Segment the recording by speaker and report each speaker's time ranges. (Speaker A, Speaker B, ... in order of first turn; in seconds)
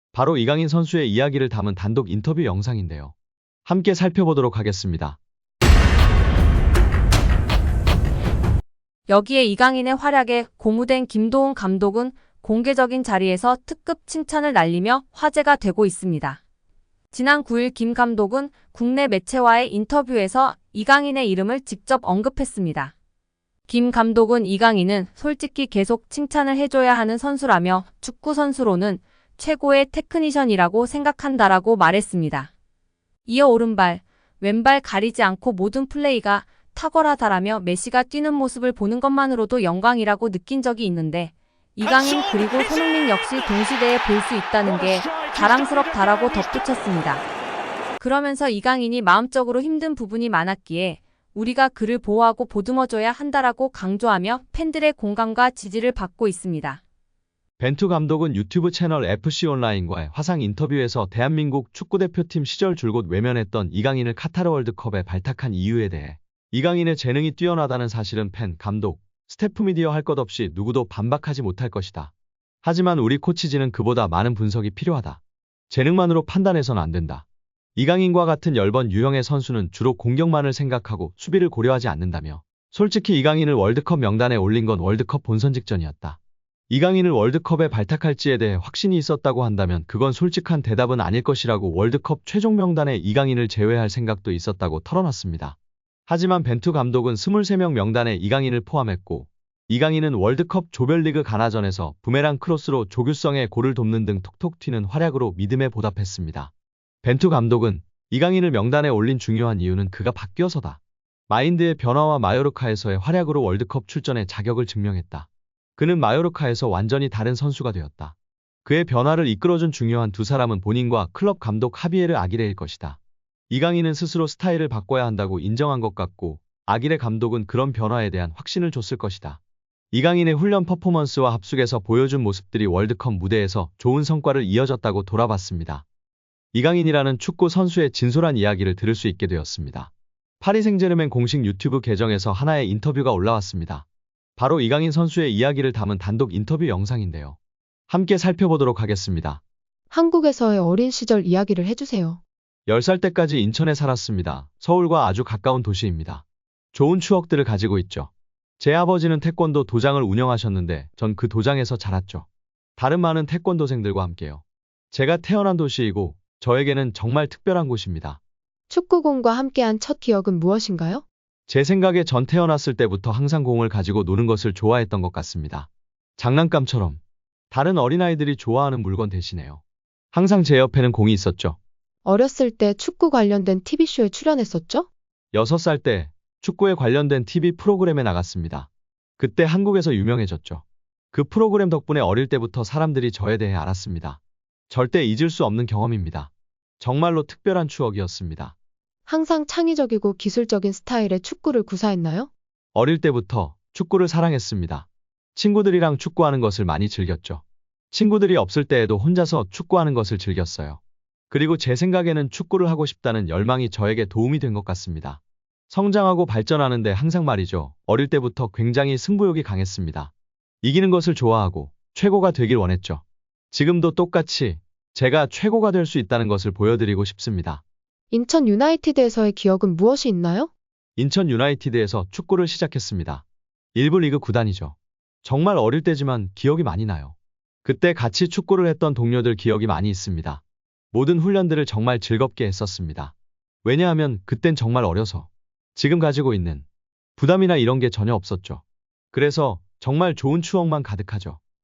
Speaker A: 0.1-3.1, 3.6-5.2, 57.6-72.1, 72.6-86.2, 86.7-95.5, 96.1-106.5, 107.0-123.0, 123.5-129.4, 129.9-135.8, 136.5-143.8, 144.4-147.4, 147.9-149.4, 152.7-162.3, 162.8-168.2, 171.5-177.0, 177.5-179.6, 180.1-181.6, 185.3-194.2, 194.7-198.6, 202.7-220.1, 220.6-227.6, 231.0-233.2, 233.8-240.4, 240.9-246.7, 247.2-251.4
Speaker B: 9.1-16.4, 17.1-22.9, 23.7-32.5, 33.2-47.2, 48.0-56.8
Speaker C: 149.9-152.2, 168.7-171.0, 182.1-184.9, 199.1-202.3, 228.1-230.5